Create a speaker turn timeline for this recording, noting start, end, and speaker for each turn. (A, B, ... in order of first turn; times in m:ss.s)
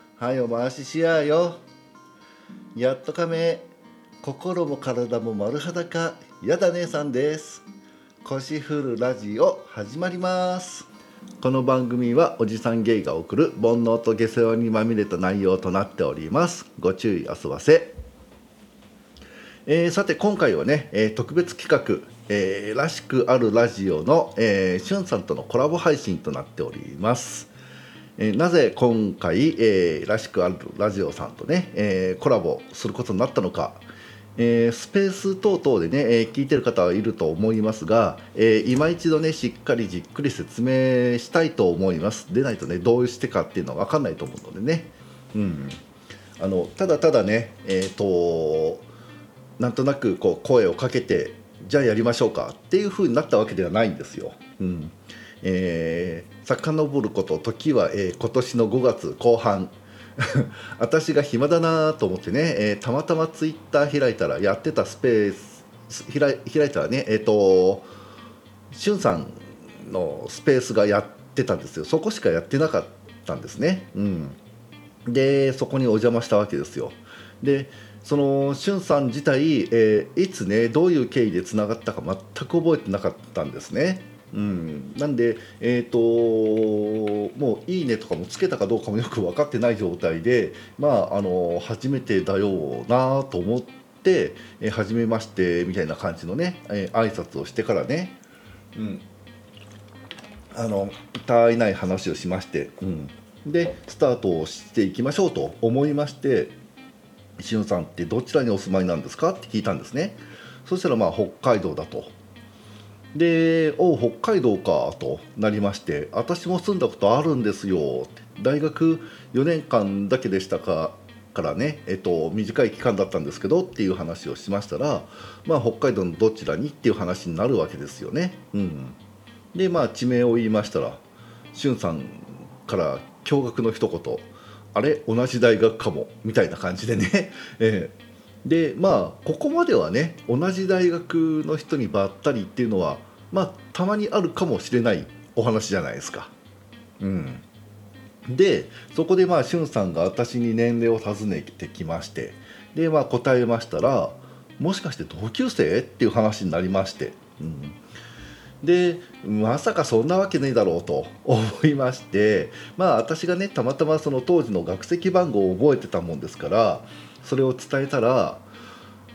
0:00.2-0:01.6 A
0:02.8-0:03.7 A
0:04.2-0:07.7 A
0:08.2-0:10.9 A
0:11.4-0:18.0 A
0:19.6-0:27.5 A
0:28.2-0:33.8 A
0:34.4-0:45.8 A
0:46.4-0:48.9 A
0:49.6-1:07.9 A
1:08.7-1:14.4 A
1:15.1-1:38.2 A
1:38.8-1:39.1 A
1:40.5-1:46.6 A
1:47.4-1:52.1 A
1:53.1-2:09.0 A
2:09.5-2:11.0 A
2:11.5-2:26.3 A
2:27.0-2:27.4 A
2:28.3-2:37.8 A
2:38.6-2:48.5 A